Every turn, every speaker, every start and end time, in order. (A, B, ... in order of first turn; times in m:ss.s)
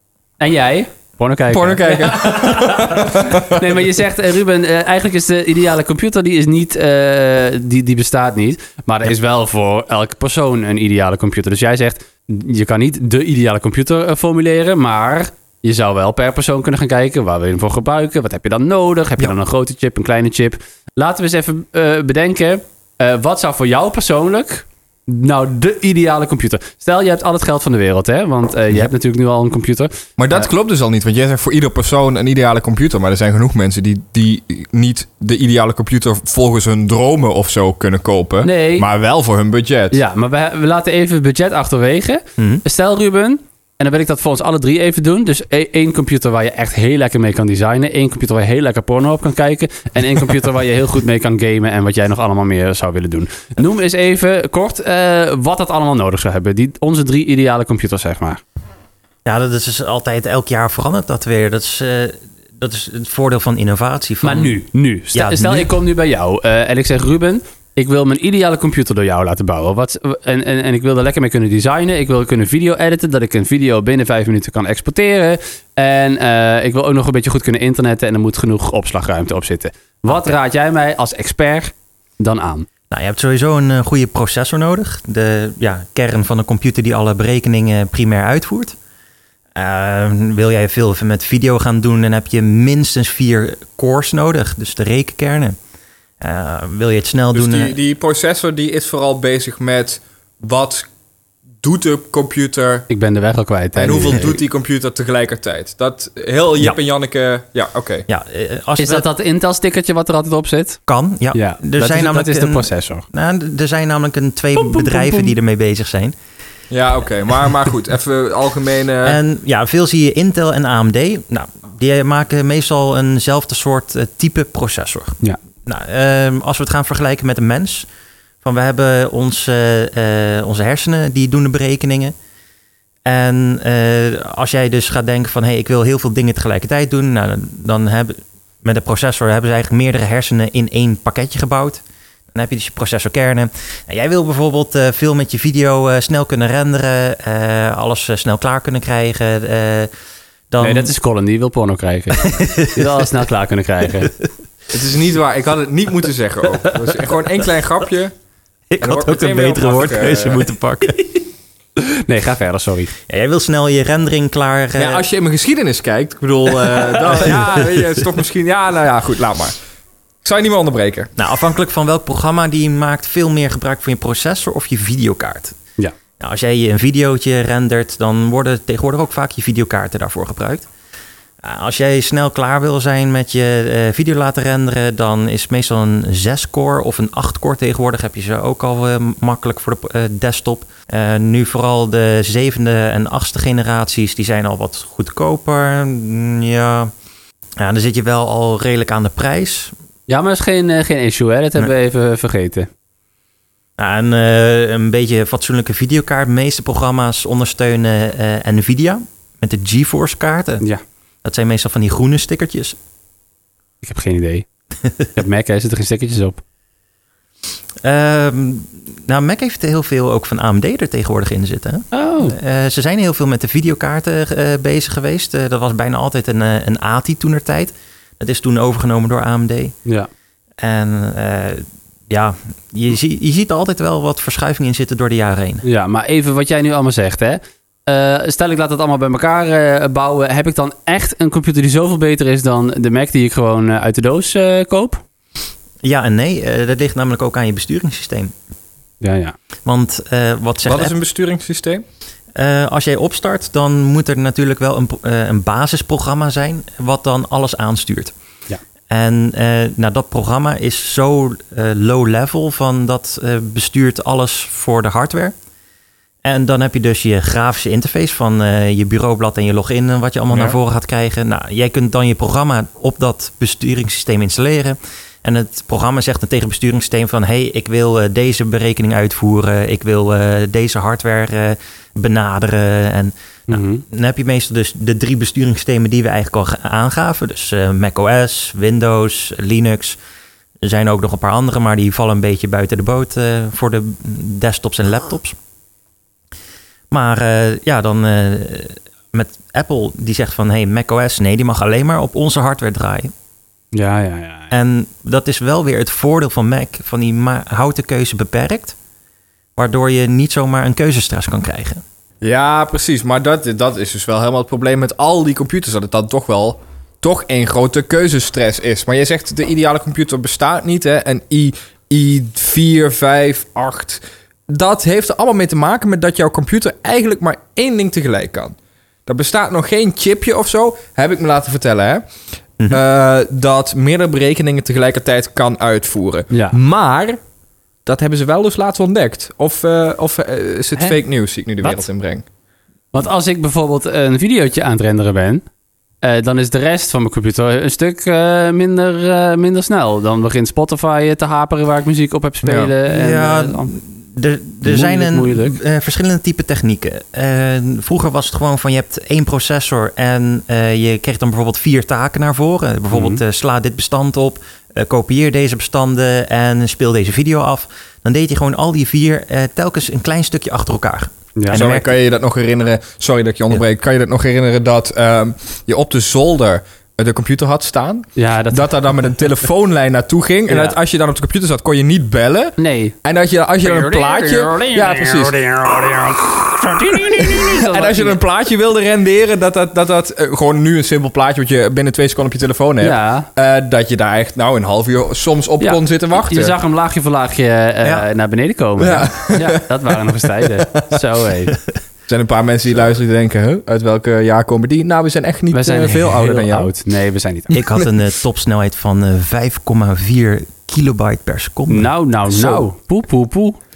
0:00.4-0:30.4 A
0:01.5-0:03.7 B
0:30.2-0:40.0 B
0:38.4-0:38.9 A
0:39.9-0:58.4 A
0:42.4-0:42.6 C
0:59.3-1:04.6 C
1:04.2-1:22.7 A
1:05.1-1:05.7 C
1:22.9-1:28.8 C
1:29.6-1:35.6 C
1:36.2-1:37.8 C
1:37.3-1:40.9 B
1:41.6-1:42.9 B
1:42.9-1:44.4 A
1:43.8-1:48.1 B
1:48.1-1:49.1 C
1:48.8-1:50.8 A
1:50.9-1:56.2 C
1:51.3-1:53.0 A
1:54.6-1:55.3 A
1:56.7-1:59.2 B
1:59.0-2:07.9 C
2:08.4-2:12.1 C
2:13.1-2:21.8 C
2:22.3-2:29.9 C
2:30.5-2:30.9 C
2:30.6-2:34.1 A
2:32.1-2:33.1 C
2:34.7-2:38.1 B
2:38.7-2:41.2 C
2:38.8-2:40.5 B
2:41.8-2:42.9 A
2:43.1-2:45.0 C
2:44.8-2:49.6 B
2:47.2-2:47.9 C
2:50.2-2:51.1 B
2:51.2-2:55.6 C
2:56.2-3:00.7 C
3:01.4-3:16.9 C
3:17.6-3:19.7 C
3:20.1-3:22.7 A
3:23.8-3:30.6 C
3:31.2-3:32.8 C
3:33.8-3:34.5 A
3:35.2-3:36.4 A
3:37.8-3:49.7 C
3:41.9-3:42.4 A
3:50.6-3:55.6 C
3:55.6-4:05.0 A
4:05.8-4:08.3 C
4:09.0-4:09.4 A
4:09.7-4:11.0 C
4:10.7-4:11.8 B
4:12.4-4:18.1 C
4:18.9-4:25.3 C
4:26.2-4:50.0 C
4:30.3-4:30.6 B
4:43.5-4:43.8 A
4:50.6-4:55.4 C
4:56.9-5:03.1 C
5:03.7-5:04.5 A
5:04.5-5:08.8 C
5:09.6-5:11.8 C
5:12.2-5:32.1 B
5:32.7-5:37.2 B
5:36.3-5:36.6 A
5:37.9-5:42.2 B
5:42.9-5:45.4 A
5:46.0-5:53.7 A
5:52.4-5:52.7 B
5:52.9-6:11.9 C
5:54.6-5:55.6 A
6:02.9-6:03.2 A
6:11.5-6:25.5 B
6:18.2-6:18.7 A
6:20.5-6:20.8 A
6:22.6-6:23.0 A
6:23.6-6:28.2 A
6:26.8-6:36.6 B
6:32.8-6:33.3 A
6:35.6-6:41.6 A
6:38.8-6:41.0 B
6:42.1-6:46.7 B
6:45.5-6:47.6 A
6:47.5-6:51.9 C
6:51.7-6:53.6 A
6:52.3-6:52.6 B